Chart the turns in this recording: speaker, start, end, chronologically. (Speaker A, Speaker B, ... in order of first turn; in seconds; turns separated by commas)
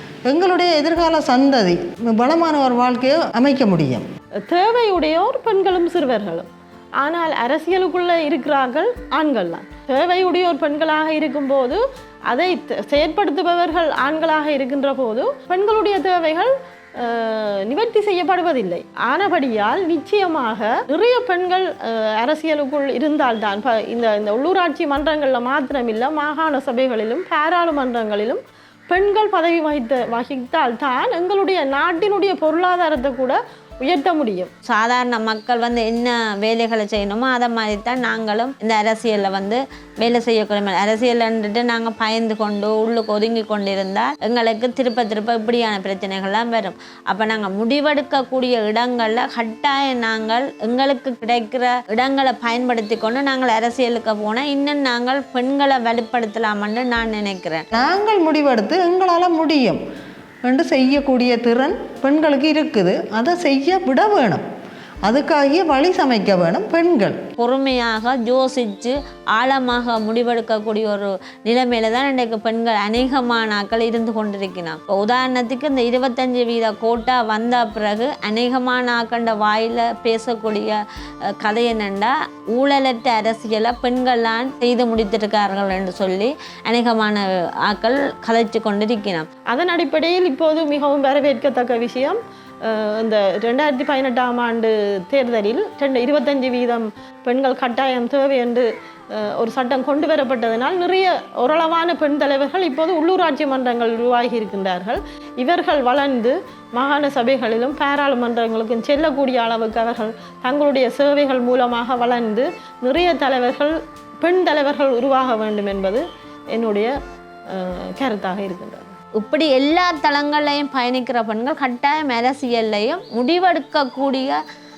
Speaker A: 0.3-4.0, Speaker B: 4.5-6.5, Speaker B: 7.0-28.4, Speaker B: 28.9-34.5, Speaker C: 34.6-57.6, Speaker A: 57.7-59.8, Speaker A: 60.5-64.4, Speaker A: 65.1-67.2, Speaker C: 67.4-80.8, Speaker C: 81.4-89.3, Speaker B: 89.5-116.9, Speaker B: 117.5-118.9, Speaker C: 119.2-124.4